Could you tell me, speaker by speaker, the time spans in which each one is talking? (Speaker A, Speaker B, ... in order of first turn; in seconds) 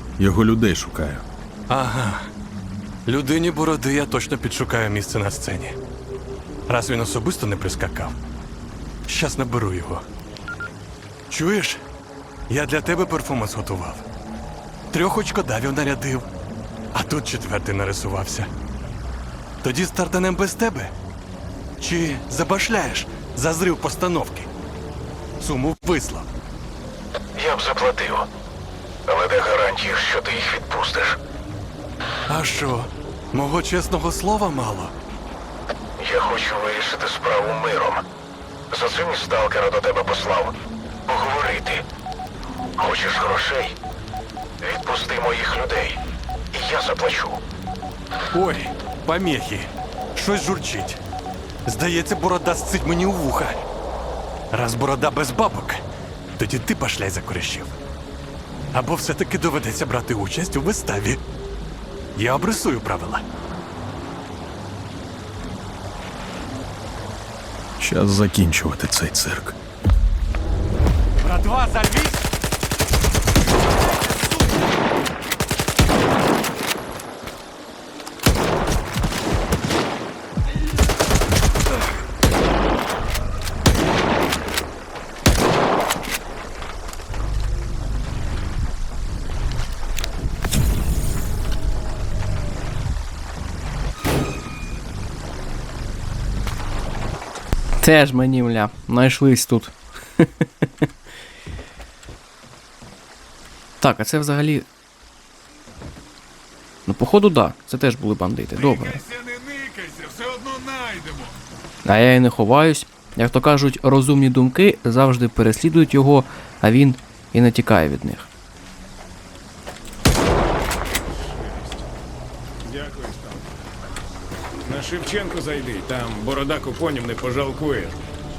Speaker A: 0.2-1.2, 67.8-69.5
Speaker B: 1.7-2.3, 3.0-5.8, 6.7-8.2, 9.1-10.0, 11.3-11.8, 12.5-14.1, 14.9-16.3, 16.9-18.5, 19.6-20.9, 21.8-24.5, 25.4-26.3, 32.3-34.9, 48.3-51.0, 51.7-53.6, 54.5-55.8, 56.4-57.7, 58.7-61.2, 62.2-63.2, 71.2-72.2
Speaker C: 27.4-28.3, 29.1-31.2, 36.0-38.0, 38.7-40.6, 41.1-41.8, 42.8-43.8, 44.6-46.0, 46.5-47.4
Speaker D: 97.8-100.7, 103.8-104.6, 106.8-109.0, 111.8-118.3
Speaker E: 109.1-111.3, 121.1-121.8, 122.6-123.4, 124.6-128.0